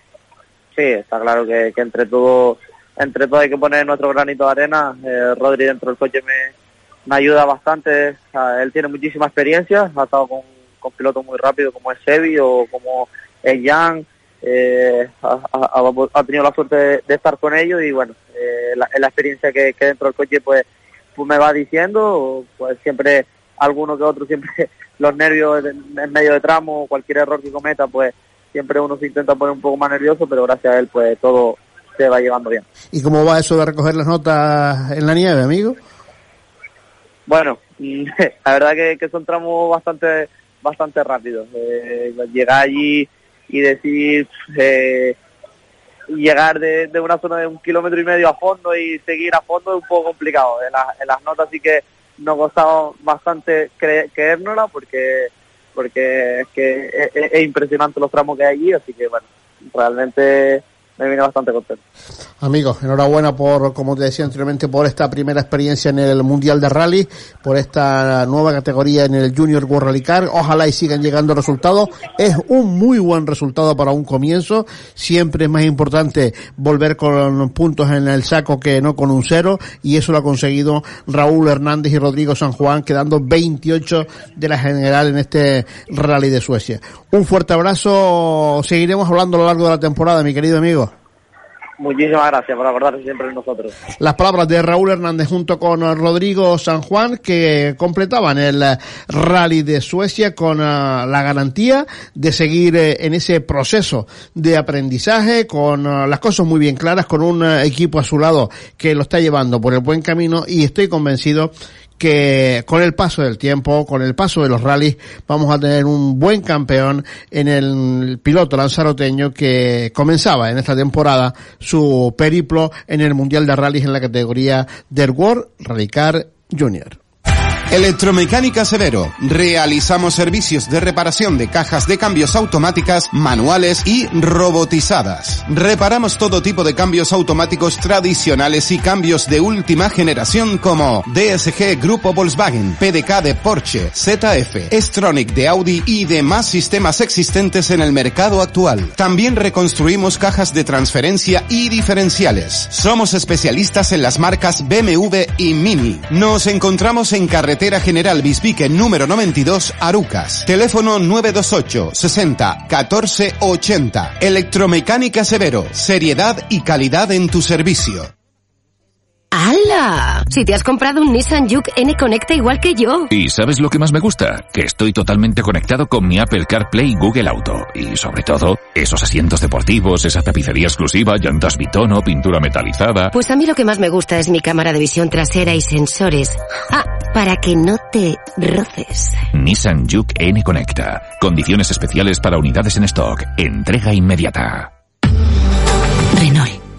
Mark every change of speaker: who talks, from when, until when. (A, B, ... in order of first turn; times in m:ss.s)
0:00.8-0:06.5 A
0:07.1-0:20.6 A
0:21.2-0:32.6 A
0:32.9-0:35.8 B
0:37.3-0:45.2 A
0:46.1-1:01.8 A
1:02.4-1:30.9 B
1:31.8-1:33.7 A
1:34.0-2:07.0 B
2:07.7-2:48.1 C
2:49.3-2:53.1 D
2:53.1-3:03.1 E
3:03.1-3:09.2 D
3:09.3-3:14.7 E
3:16.2-3:16.6 D